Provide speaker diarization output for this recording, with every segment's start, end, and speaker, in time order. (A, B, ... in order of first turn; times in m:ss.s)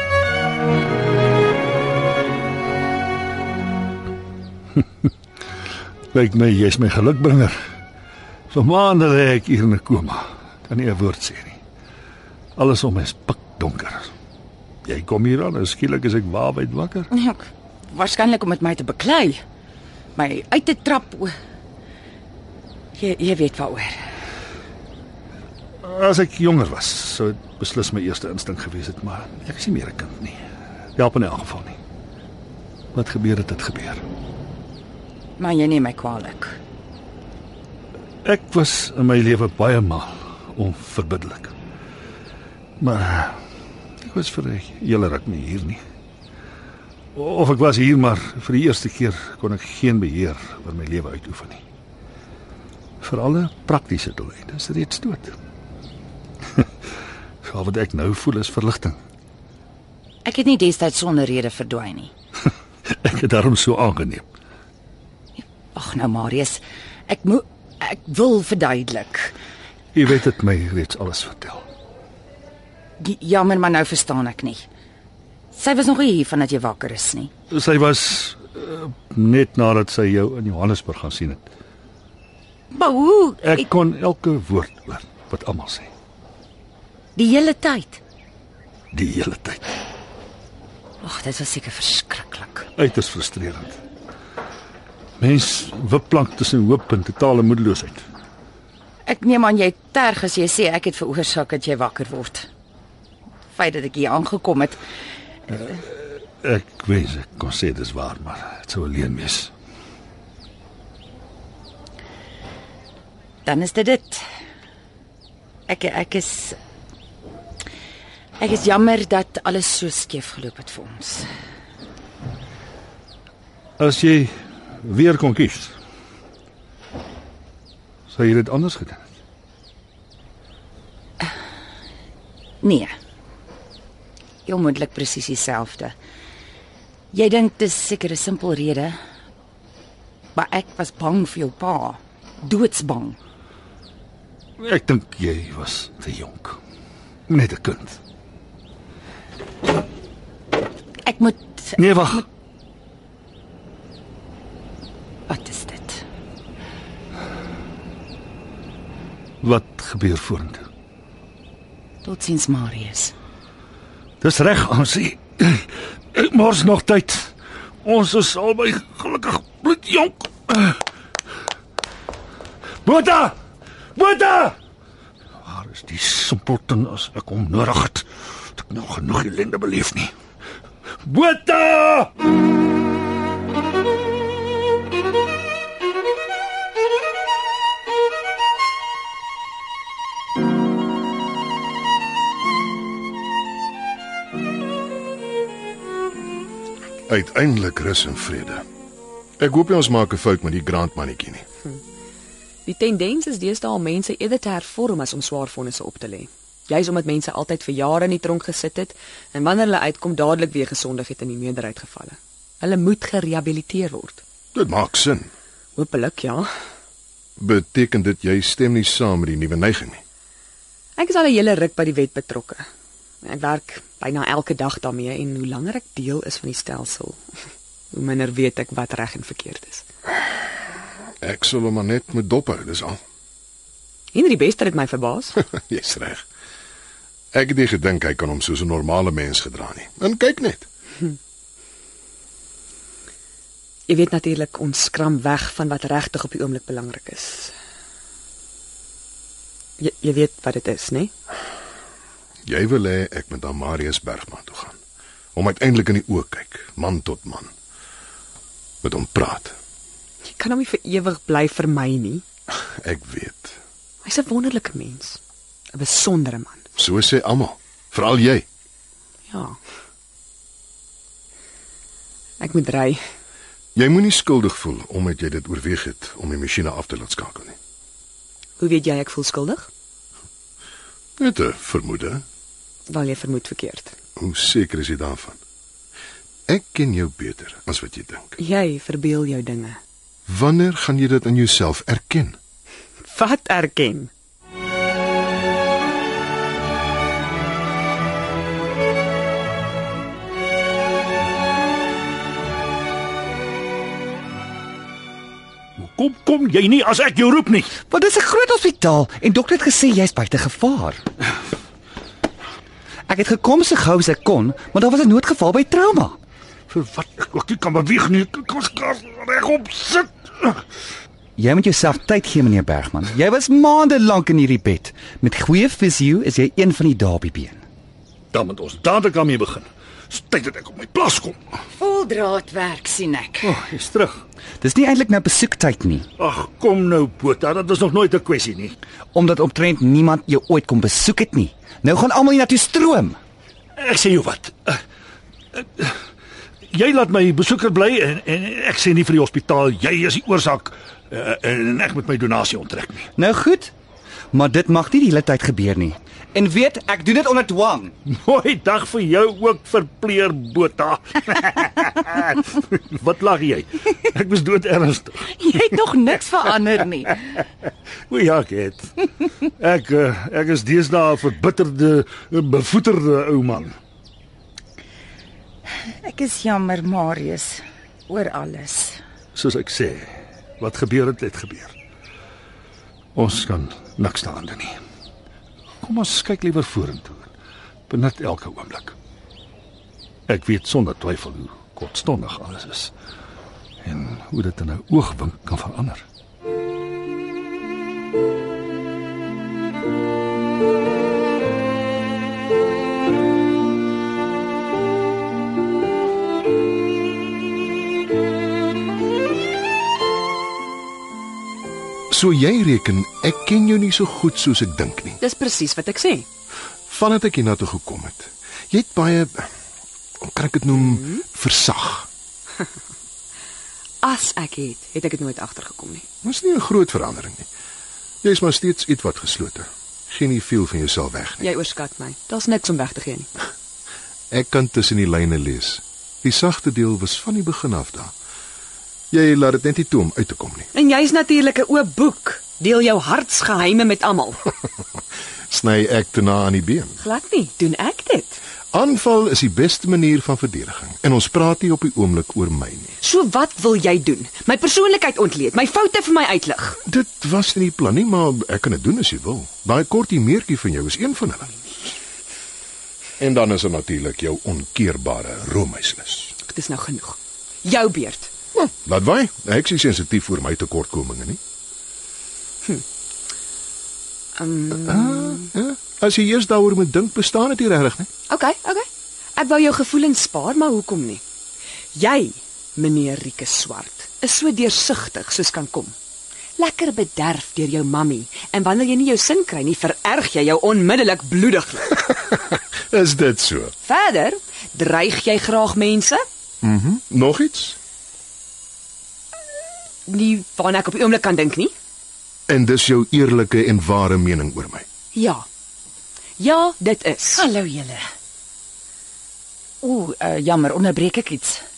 0:06.1-0:07.6 A
0:08.5-0:11.6 A
0:12.6-0:14.1 A
0:14.8-0:17.1 A
0:17.1-0:19.4 B
0:20.2-0:21.3 B
0:23.0-0:23.9 B
0:25.8-0:30.4 A
0:31.0-0:31.8 A
0:32.9-0:34.0 A
0:35.4-0:36.6 B
0:38.2-0:41.5 A
0:42.8-0:43.4 A
0:44.0-0:45.8 A
0:47.1-0:51.6 A
0:53.0-0:55.4 A
0:57.4-0:59.0 A
1:00.2-1:02.1 B
1:03.0-1:04.2 A
1:05.4-1:09.3 B
1:09.9-1:11.6 A
1:13.0-1:14.7 B
1:15.5-1:17.3 B
1:17.5-1:21.5 A
1:22.7-1:23.6 B
1:23.4-1:25.9 A
1:27.2-1:28.0 B
1:28.9-1:29.8 A
1:31.0-1:32.7 B
1:32.8-1:33.8 A
1:35.2-1:38.0 A
1:39.1-1:42.5 B
1:43.5-1:44.8 B
1:45.5-1:49.5 A
1:53.4-1:54.2 B
1:55.7-1:56.6 B
1:58.4-2:01.3 B
2:03.8-2:05.7 A
2:08.1-2:09.0 A
2:12.6-2:12.9 B
2:14.5-2:15.9 B
2:17.1-2:19.0 B
2:20.4-2:23.2 B
2:24.6-2:26.6 A
2:27.3-2:28.0 A
2:31.0-2:32.2 B
2:31.8-2:32.2 A
2:35.3-2:36.0 B
2:39.4-2:40.6 A
2:42.0-2:43.1 B
2:44.2-2:47.3 A
2:47.8-2:50.8 A
2:52.8-2:53.4 A
2:54.0-2:54.6 A
2:55.4-3:00.1 A
3:01.0-3:02.1 A
3:17.1-3:18.6 C
3:19.4-3:21.4 C
3:22.6-3:34.2 D
3:34.5-3:35.3 C
3:35.8-3:36.5 D
3:37.4-3:40.0 C
3:41.0-3:42.6 D
3:43.2-3:47.2 D
3:47.9-3:49.8 D
3:51.2-3:53.0 C
3:54.1-3:55.4 D
3:55.4-3:56.2 C
3:57.3-4:00.7 C
4:03.9-4:07.5 D
4:09.8-4:11.1 D
4:12.4-4:14.8 C
4:15.3-4:17.5 C
4:18.8-4:19.6 C
4:20.2-4:22.2 D
4:22.7-4:23.6 C
4:24.0-4:25.2 D
4:25.7-4:26.6 D
4:26.8-4:28.4 C
4:29.3-4:29.6 D
4:32.4-4:33.0 D
4:33.7-4:37.6 C
4:38.6-4:39.7 D
4:41.2-4:42.2 C
4:42.9-4:43.9 D
4:44.2-4:45.4 C
4:46.5-4:48.4 C
4:48.4-4:49.8 D
4:50.3-4:52.4 C
4:53.1-4:54.1 D
5:05.8-5:07.7 A
5:07.8-5:11.0 E
5:13.1-5:16.2 E
5:16.7-5:20.6 A
5:21.4-5:27.6 E
5:28.3-5:31.4 A
5:31.8-5:33.5 B
5:33.4-5:34.2 A
5:34.6-5:36.0 E
5:36.2-5:38.8 A
5:39.1-5:43.2 E
5:43.8-5:44.8 A
5:45.5-5:45.9 A
5:46.7-5:53.1 A
5:53.2-5:53.7 E
5:54.3-5:57.9 E
5:58.0-6:05.4 A
6:05.3-6:07.3 B
6:08.1-6:08.9 A
6:09.6-6:13.7 A
6:15.9-6:19.0 B
6:19.3-6:21.7 A
6:23.1-6:24.8 A
6:25.8-6:27.3 A
6:27.9-6:28.9 A
6:30.3-6:32.9 A
6:33.8-6:36.0 A
6:52.1-6:55.2 C
6:55.2-6:56.2 D
6:56.9-6:59.5 C
7:00.2-7:02.1 C
7:00.7-7:01.2 D
7:04.0-7:06.0 D
7:06.2-7:07.4 C
7:08.2-7:11.5 C
7:11.4-7:13.3 D
7:14.3-7:18.1 C
7:19.1-7:20.7 C
7:20.7-7:24.5 D
7:25.5-7:27.0 C
7:27.0-7:28.4 D
7:28.7-7:32.9 C
7:33.0-7:36.8 D
7:36.8-7:41.6 C
7:43.2-7:46.3 C
7:46.4-7:48.3 D
7:48.5-7:51.4 C
7:54.4-7:55.5 D
7:54.8-7:58.1 C
7:58.3-8:01.2 D
8:01.9-8:05.9 D
8:06.6-8:12.0 D
8:12.3-8:13.7 C
8:13.8-8:16.2 D
8:16.6-8:17.8 C
8:20.1-8:21.7 D
8:22.5-8:24.8 C
8:25.1-8:25.4 D
8:26.4-8:27.4 D
8:27.3-8:28.0 B
8:29.8-8:31.6 B